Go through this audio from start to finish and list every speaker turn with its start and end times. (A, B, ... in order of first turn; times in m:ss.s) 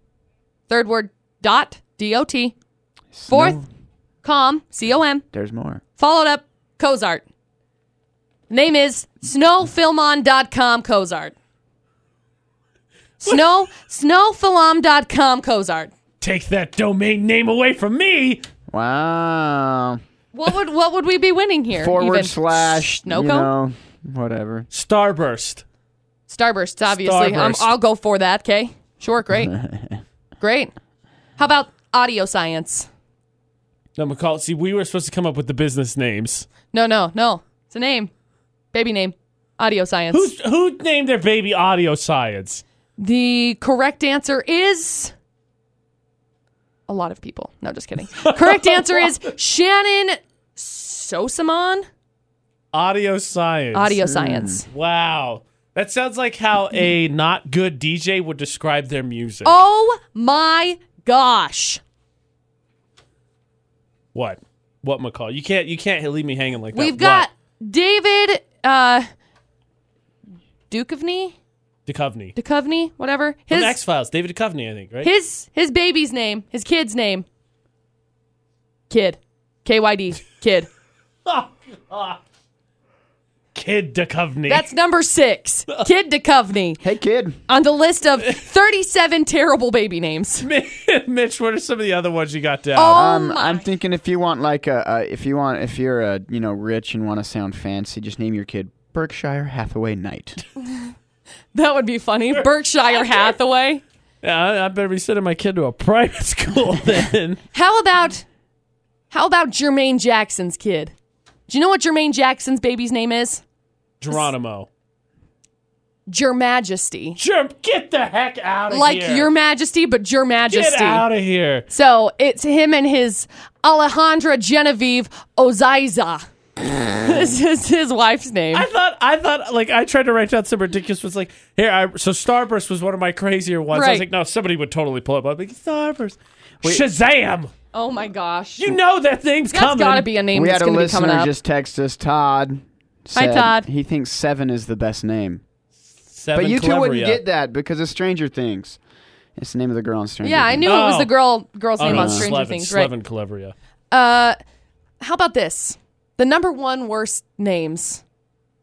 0:00.7-0:02.5 A
0:03.1-0:03.6 B
0:03.3-0:03.6 A
0:04.2-0:05.2 A
0:05.3-0:05.8 B
0:06.0-0:07.2 A
0:08.5-0:11.3 A
0:13.2-0:15.9 A
0:16.2-0:18.4 C
0:18.7-0:20.0 B
0:20.3-0:23.5 A
0:21.8-0:24.7 B
0:24.7-0:25.6 C
0:26.3-0:29.5 A
0:26.9-0:27.7 C
0:29.5-0:30.0 B
0:30.4-0:30.7 A
0:31.4-0:32.9 A
0:34.0-0:36.5 C
0:36.7-0:38.1 A
0:38.7-0:40.3 A
0:40.1-0:42.6 C
0:43.0-0:45.1 A
0:46.9-0:51.8 A
0:48.1-0:49.1 C
0:52.7-0:54.0 C
0:53.7-0:54.6 A
0:54.0-0:54.6 B
0:54.7-0:59.6 C
0:59.4-1:01.8 A
1:04.1-1:07.3 C
1:06.7-1:09.0 A
1:10.7-1:11.3 A
1:11.8-1:12.4 C
1:12.4-1:13.8 A
1:13.5-1:15.1 C
1:15.0-1:17.2 A
1:18.9-1:20.7 A
1:21.2-1:22.2 C
1:23.5-1:24.6 C
1:24.5-1:26.8 A
1:26.8-1:27.4 B
1:27.5-1:30.5 A
1:30.4-1:33.0 C
1:32.8-1:33.6 A
1:32.9-1:40.4 B
1:41.5-1:43.8 A
1:42.3-1:43.3 C
1:44.2-1:47.4 C
1:47.5-1:48.2 A
1:49.1-1:50.9 A
1:51.5-1:53.4 A
1:54.0-1:54.7 C
1:56.1-1:57.2 A
1:57.2-1:59.3 C
1:58.7-2:01.0 A
2:00.5-2:01.6 C
2:01.7-2:06.2 A
2:06.9-2:08.7 A
2:08.5-2:17.5 C
2:13.7-2:14.0 A
2:17.7-2:18.8 A
2:18.6-2:20.1 C
2:19.5-2:21.3 A
2:20.3-2:25.4 B
2:23.1-2:23.7 A
2:26.1-2:27.2 C
2:26.3-2:28.8 B
2:29.4-2:30.7 B
2:30.2-2:32.9 A
2:30.6-2:31.1 C
2:31.8-2:33.5 C
2:31.9-2:32.3 B
2:33.9-2:34.4 A
2:35.0-2:38.0 A